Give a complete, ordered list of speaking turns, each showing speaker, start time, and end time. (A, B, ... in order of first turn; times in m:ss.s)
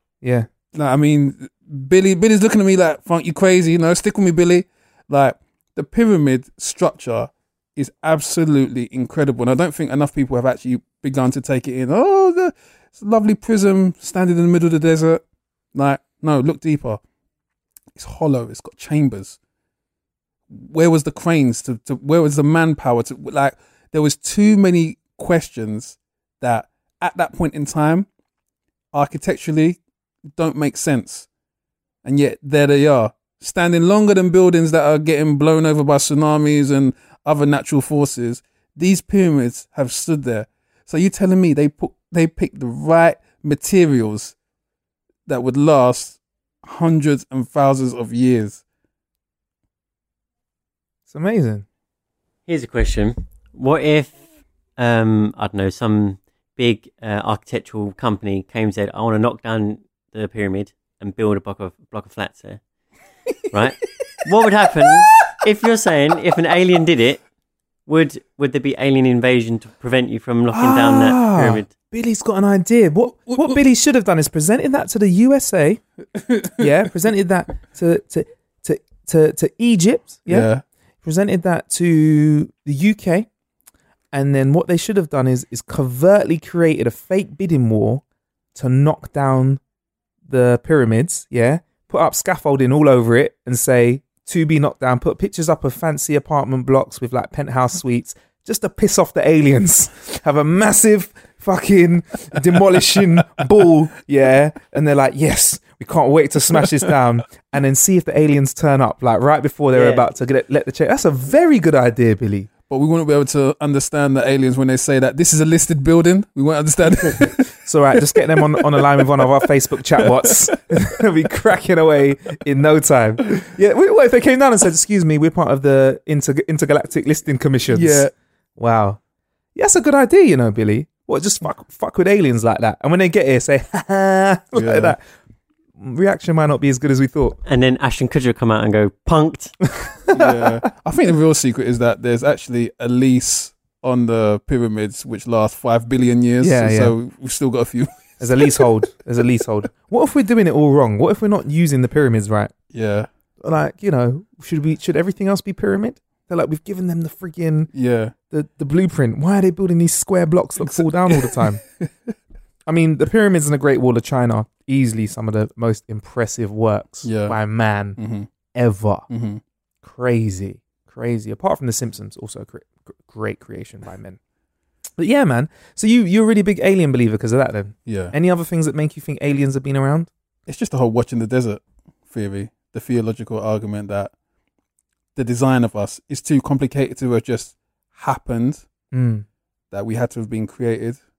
0:00.2-0:00.5 A
0:00.7-0:15.2 B
0:15.7-0:17.0 B
0:18.0-0:19.4 B
0:20.5-0:28.1 B
0:28.9-0:29.8 B
0:30.3-0:31.3 B
0:32.0-0:44.3 B
0:45.3-0:48.6 B
0:51.1-0:51.7 A
0:52.5-0:54.2 C
0:54.8-1:02.6 C
1:03.5-1:07.2 C
1:07.9-1:11.7 C
1:10.5-1:15.8 A
1:13.3-1:13.6 B
1:16.2-1:16.7 B
1:16.6-1:20.5 A
1:20.3-1:20.6 B
1:21.0-1:23.3 A
1:24.1-1:28.0 A
1:28.6-1:29.6 A
1:30.3-1:52.5 A
1:49.7-1:50.1 C
1:52.7-1:59.3 B
1:57.6-2:09.0 A
2:00.0-2:00.5 B
2:07.7-2:08.1 B
2:09.6-2:15.0 A
2:14.5-2:15.0 B
2:15.8-2:17.4 A
2:17.4-2:19.6 C
2:19.9-2:20.6 A
2:20.1-2:28.7 B
2:26.4-2:27.0 A
2:28.2-2:32.5 A
2:32.7-2:33.1 B
2:33.4-2:37.7 A
2:37.7-2:38.1 B
2:38.3-2:41.6 A
2:40.6-2:42.1 B
2:42.7-2:48.0 A
2:47.0-2:47.4 B
2:48.0-2:48.3 B
2:48.5-2:49.1 A
2:49.1-2:49.4 B
2:49.8-2:54.2 A
2:55.0-3:00.1 A
2:57.9-2:58.1 B
3:00.5-3:04.1 B
3:05.2-3:08.7 B
3:08.9-3:09.2 A
3:09.7-3:11.0 B